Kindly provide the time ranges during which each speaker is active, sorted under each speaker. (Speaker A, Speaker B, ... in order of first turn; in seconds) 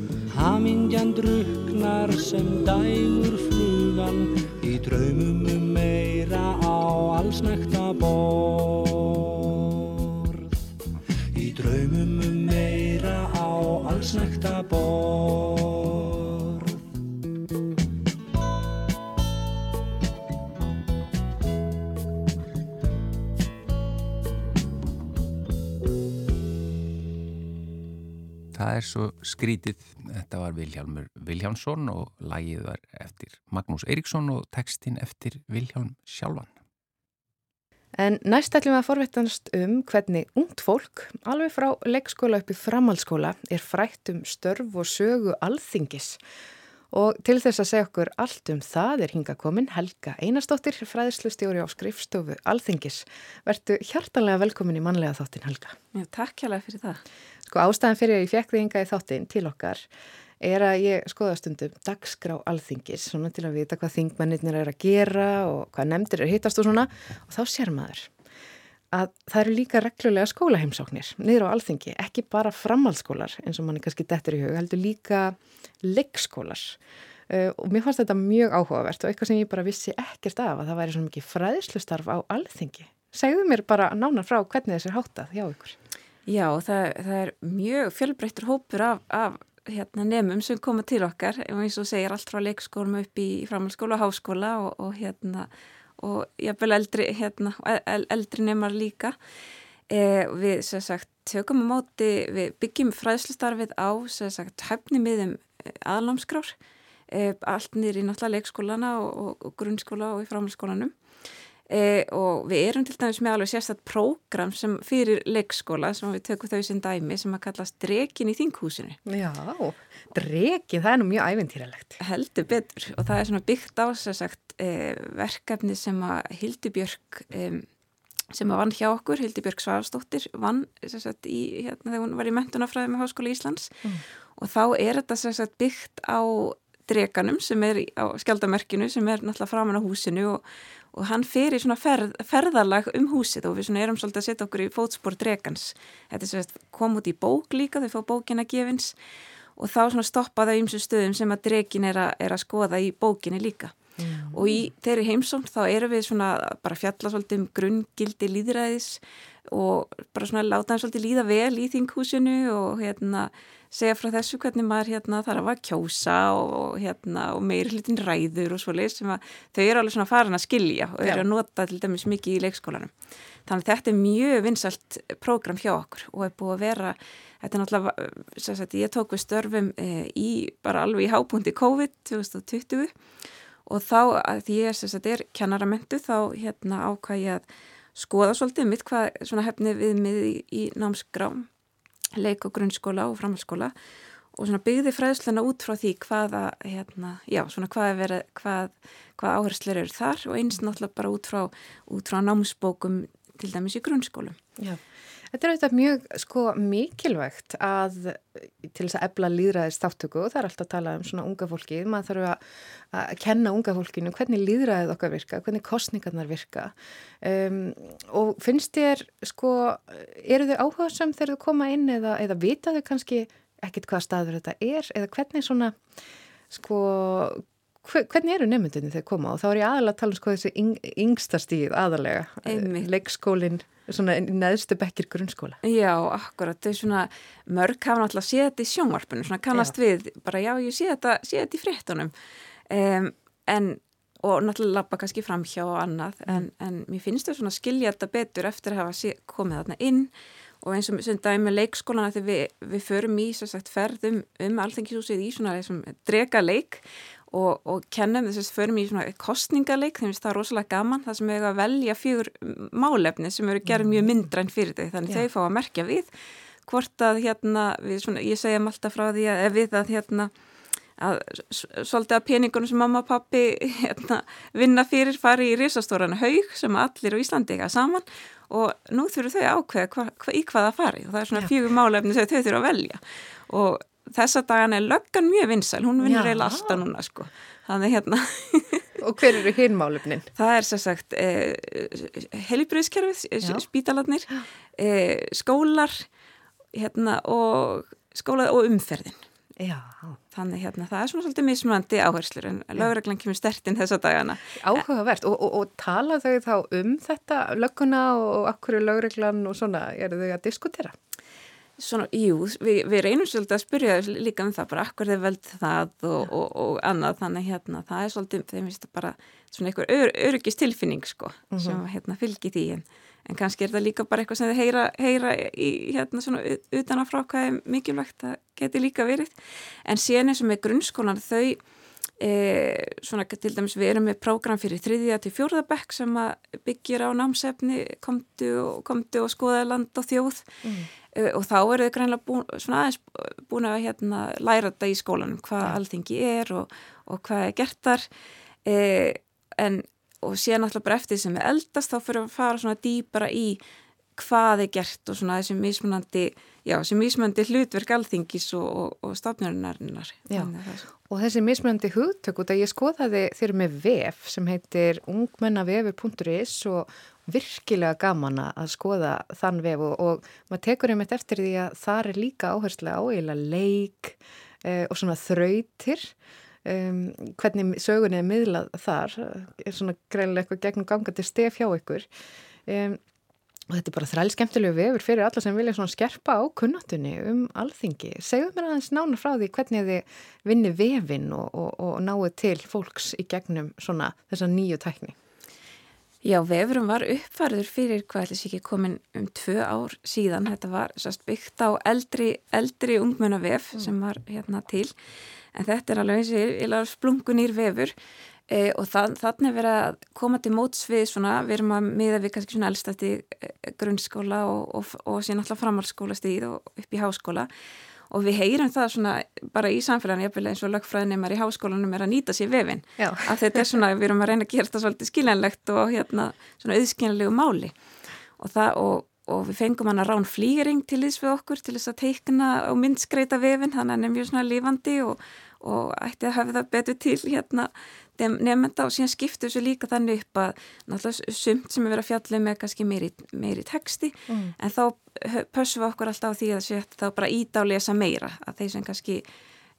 Speaker A: 0.3-10.6, 11.3-16.8
Speaker B: 28.5-36.5
Speaker C: 38.0-46.2, 46.9-55.8, 57.5-59.9, 60.4-68.1, 68.9-85.8, 119.1-122.0, 154.0-154.6, 204.6-225.8, 226.5-235.6, 263.7-264.3, 286.0-286.8, 289.0-290.3, 299.6-300.2, 304.6-311.0, 321.5-321.8, 340.6-340.9, 360.3-376.1, 376.6-382.1, 382.7-383.0, 383.7-395.2, 423.0-423.6, 444.3-444.5
Speaker D: 55.9-57.0, 86.3-99.2, 99.9-106.5, 107.1-110.9, 111.7-119.0, 122.0-127.7, 128.3-133.8, 134.4-148.9, 149.6-153.8, 154.3-172.9, 173.5-182.9, 183.7-191.5, 192.2-193.7, 194.4-204.4, 232.4-232.9, 235.6-242.1, 242.7-266.1, 266.7-270.3, 271.0-288.9, 290.4-296.1, 296.7-299.2, 300.3-304.8, 311.8-331.6, 332.2-340.5, 341.1-348.1, 348.6-353.6, 354.2-360.9, 396.2-404.9, 405.5-407.9, 408.5-417.5, 418.1-427.7, 428.4-449.2